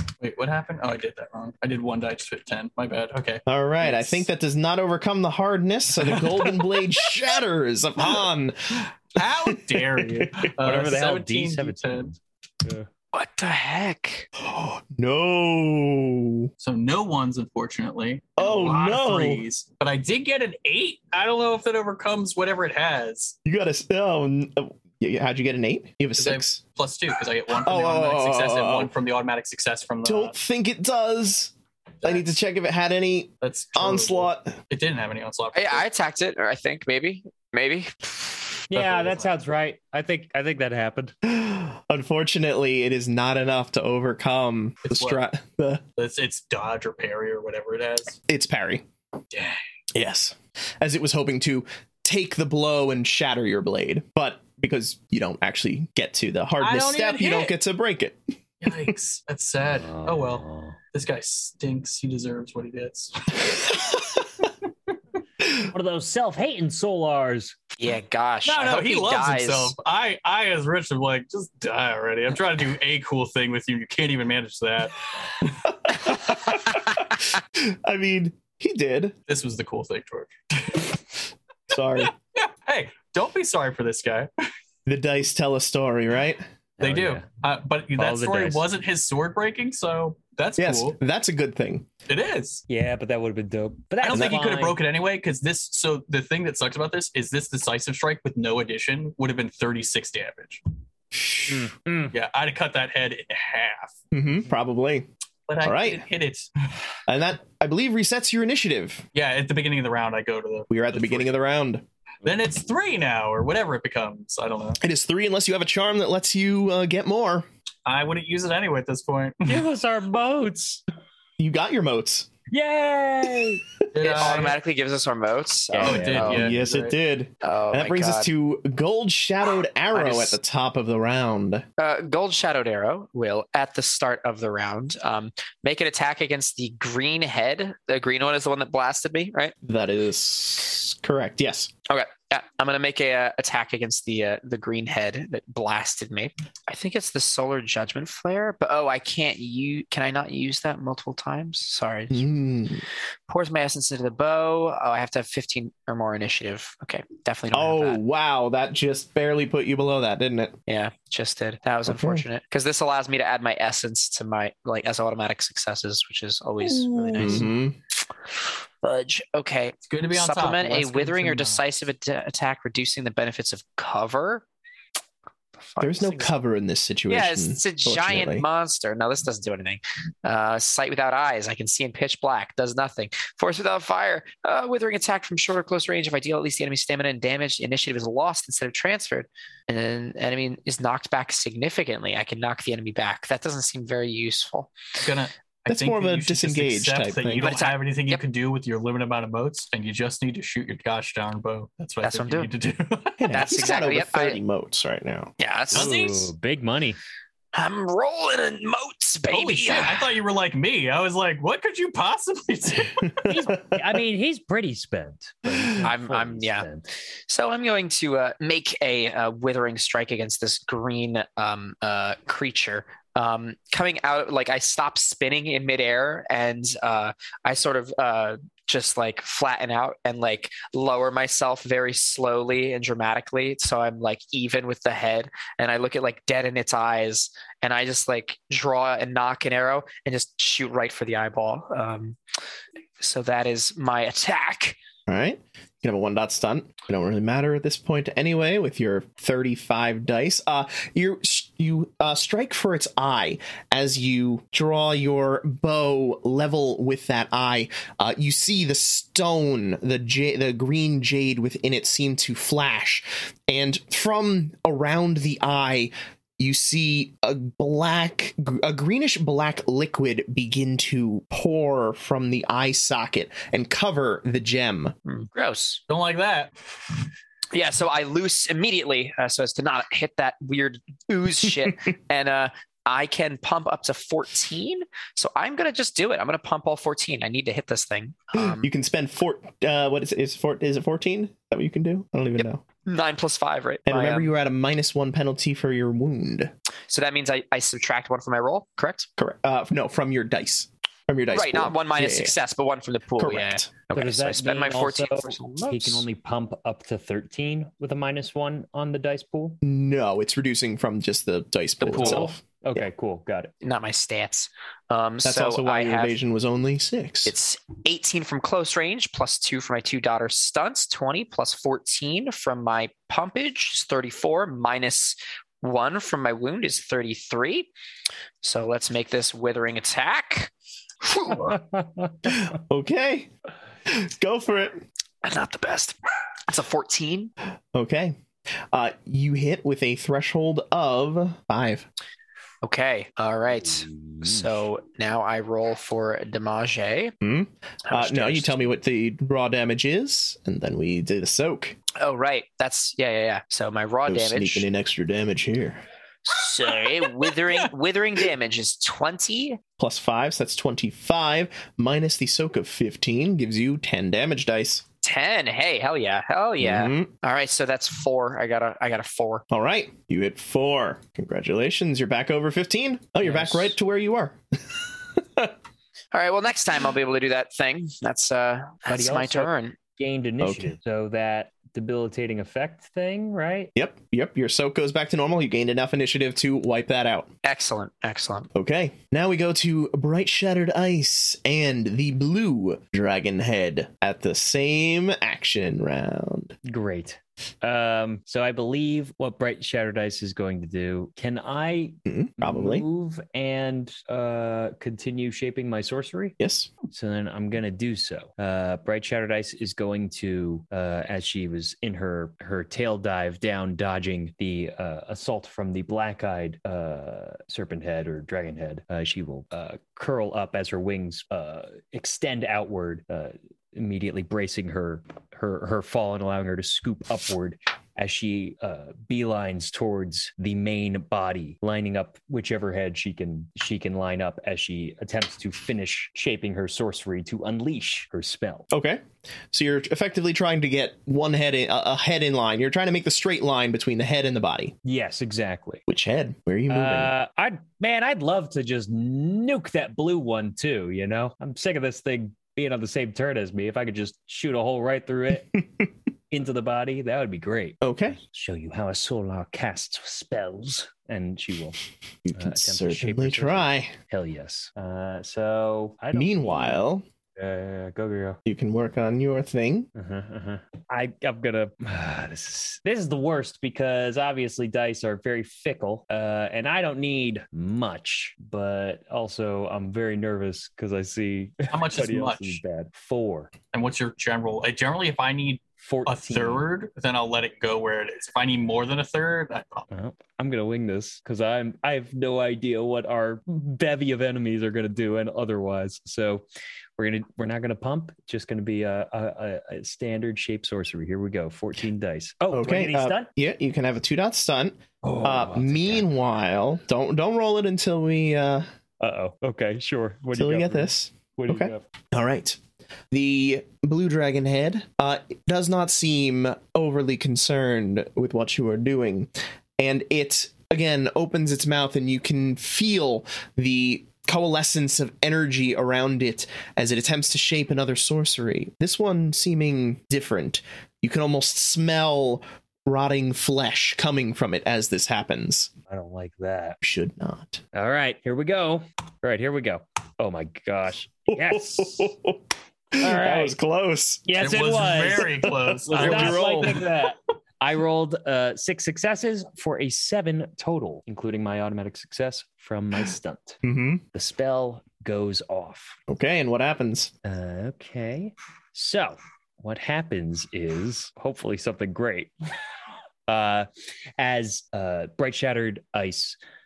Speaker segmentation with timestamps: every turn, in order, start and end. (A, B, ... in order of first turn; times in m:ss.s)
0:00.2-0:04.3 A
0:03.5-0:10.5 B
0:06.0-0:06.8 A
0:09.1-0:12.1 A
0:10.6-0:12.9 C
0:13.1-0:14.3 D
0:14.4-0:16.5 B
0:16.6-0:23.4 A
0:18.4-0:19.4 B
0:23.4-0:26.6 B
0:26.2-0:30.3 A
0:27.6-0:28.9 B
0:30.0-0:34.6 B
0:33.4-0:35.8 A
0:35.5-0:38.6 D
0:38.7-0:41.2 C
0:38.7-0:39.3 A
0:41.3-0:45.8 B
0:44.8-0:45.2 A
0:46.0-0:48.2 A
0:48.3-0:48.8 B
0:49.3-0:49.6 A
0:49.9-0:58.2 B
0:56.6-0:57.6 A
0:58.6-1:03.9 A
0:59.6-1:00.8 C
1:05.5-1:07.6 C
1:07.8-1:09.7 D
1:08.4-1:16.3 A
1:15.8-1:19.2 B
1:19.3-1:21.0 A
1:21.7-1:22.1 B
1:22.0-1:24.3 A
1:24.9-1:26.4 B
1:26.8-1:27.2 C
1:26.8-1:31.0 A
1:28.0-1:28.7 C
1:30.6-1:31.9 B
1:32.1-1:32.6 A
1:32.7-1:34.8 C
1:34.0-1:40.6 A
1:34.1-1:34.4 B
1:41.2-1:41.4 B
1:41.5-1:42.2 C
1:42.1-1:44.0 A
1:44.1-1:45.1 B
1:45.5-1:46.5 A
1:45.6-1:46.0 B
1:47.1-1:49.0 B
1:49.1-1:51.3 A
1:50.7-1:51.8 B
1:52.2-1:54.8 A
1:54.8-1:57.5 B
1:57.8-1:59.7 A
1:59.5-2:00.8 C
2:01.4-2:02.3 B
2:02.5-2:03.6 C
2:03.9-2:04.6 A
2:04.0-2:06.5 D
2:05.7-2:06.5 C
2:05.8-2:07.0 A
2:06.3-2:11.6 B
2:07.4-2:08.3 D
2:09.9-2:10.4 D
2:11.8-2:19.5 D
2:19.6-2:21.7 B
2:21.9-2:32.3 D
2:32.1-2:32.9 B
2:33.3-2:38.0 D
2:37.5-2:40.6 B
2:40.7-2:47.5 D
2:41.9-2:42.2 B
2:46.6-2:47.8 B
2:47.2-2:47.5 C
2:48.8-2:54.4 D
2:49.9-2:51.6 A
2:55.6-2:56.3 D
2:55.8-2:58.4 B
2:57.1-3:14.7 D
3:15.0-3:23.4 A
3:15.7-3:17.5 B
3:17.4-3:18.2 D
3:22.0-3:22.5 D
3:23.2-3:25.3 B
3:23.3-3:24.4 D
3:25.4-3:26.3 D
3:25.7-3:26.2 A
3:25.7-3:27.0 C
3:27.5-3:30.2 D
3:29.3-3:33.2 A
3:33.2-3:36.8 C
3:35.8-3:36.7 D
3:37.3-4:02.2 D
4:03.0-4:04.8 D
4:05.1-4:34.9 B
4:35.1-4:35.8 D
4:35.9-4:36.5 A
4:37.5-4:48.7 D
4:48.3-4:52.6 B
4:52.9-4:54.3 D
4:53.9-4:56.5 B
4:56.9-4:59.1 D
4:59.2-5:02.4 B
5:01.3-5:06.1 D
5:03.2-5:03.7 B
5:03.9-5:09.6 C
5:09.6-5:12.8 B
5:11.8-5:12.3 D
5:12.0-5:13.5 C
5:13.6-5:16.2 D
5:15.2-5:17.3 B
5:17.3-5:27.7 D
5:28.4-5:30.5 D
5:31.0-5:31.6 D
5:32.3-5:33.3 B
5:33.9-5:34.8 B
5:35.2-5:37.3 D
5:37.7-5:38.2 B
5:38.7-5:41.9 B
5:42.6-5:47.2 D
5:43.5-5:44.5 C
5:47.2-5:51.8 B
5:47.9-5:48.7 D
5:52.0-5:54.7 D
5:54.1-5:55.8 B
5:56.2-5:59.6 D
5:59.8-6:04.8 B
6:05.0-6:09.4 D
6:06.6-6:07.1 B
6:09.5-6:14.4 B
6:13.2-6:13.7 C
6:16.1-6:19.8 D
6:18.9-6:23.7 C
6:20.4-6:20.8 B
6:23.8-6:27.3 B
6:27.4-6:28.5 D
6:28.6-6:36.6 B
6:36.6-6:46.4 C
6:42.1-6:42.8 B
6:46.4-6:46.7 B
6:46.9-7:18.7 C
7:18.7-7:19.0 B
7:19.5-7:24.8 B
7:24.8-7:25.8 C
7:25.9-7:27.1 B
7:26.7-7:35.7 C
7:36.3-7:41.8 C
7:37.8-7:38.2 B
7:42.2-7:43.9 B
7:42.4-7:46.8 C
7:46.1-7:47.0 B
7:47.4-7:48.4 C
7:48.5-7:49.9 B
7:50.0-8:03.5 C
8:01.7-8:02.6 A
8:03.7-8:09.9 A
8:05.8-8:06.6 C
8:09.9-8:16.4 C
8:17.0-8:23.3 C
8:22.5-8:28.7 B
8:25.0-8:26.1 C
8:29.0-8:31.8 C
8:30.3-8:32.6 B
8:33.1-8:55.7 B
8:55.9-8:56.8 C
8:56.8-8:57.6 B
8:57.7-9:02.1 C
9:01.3-9:02.4 B
9:02.9-9:04.2 B
9:03.0-9:03.6 C
9:04.2-9:13.6 C
9:04.4-9:06.9 A
9:05.4-9:06.8 B
9:13.6-9:14.0 B
9:14.1-9:16.0 C
9:16.1-9:17.1 B
9:17.2-9:22.3 C
9:23.3-9:26.4 C